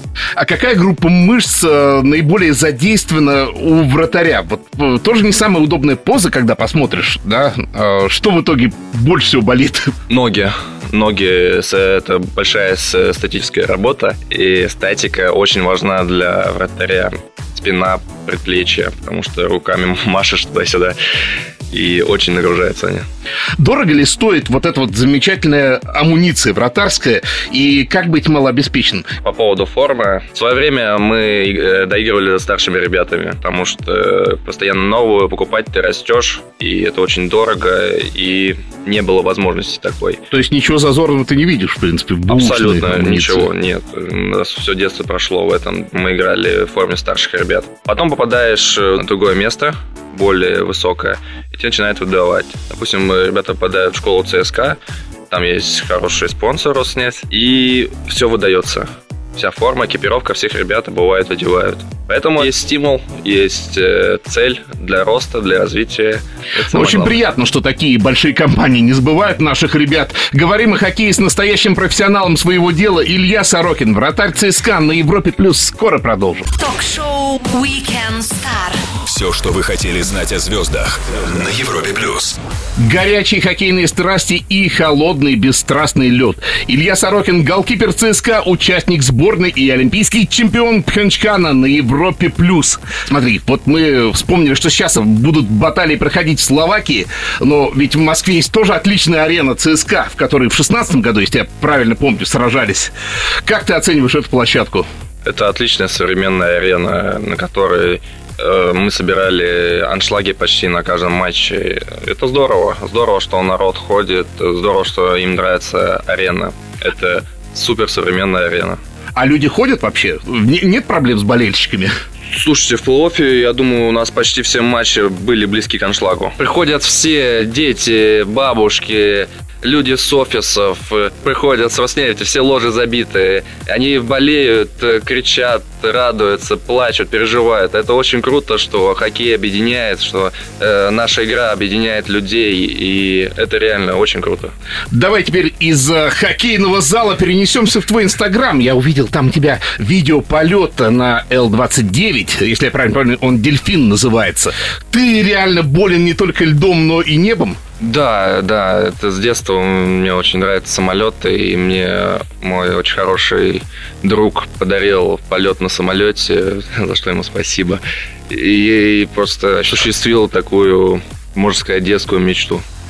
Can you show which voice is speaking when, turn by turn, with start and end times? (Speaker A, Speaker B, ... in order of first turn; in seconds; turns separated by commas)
Speaker A: 0.3-9.9, Speaker B: 10.1-20.9, Speaker B: 21.7-23.0, Speaker A: 23.6-29.1, Speaker B: 29.2-40.2, Speaker A: 40.3-43.5, Speaker B: 42.3-54.8, Speaker B: 55.3-67.2, Speaker A: 66.7-76.5, Speaker C: 76.5-78.8, Speaker D: 79.0-82.3, Speaker A: 82.8-102.9, Speaker A: 103.4-104.9, Speaker B: 105.2-118.8, Speaker A: 119.2-121.9, Speaker B: 122.3-144.5, Speaker A: 144.9-157.6, Speaker B: 157.8-172.6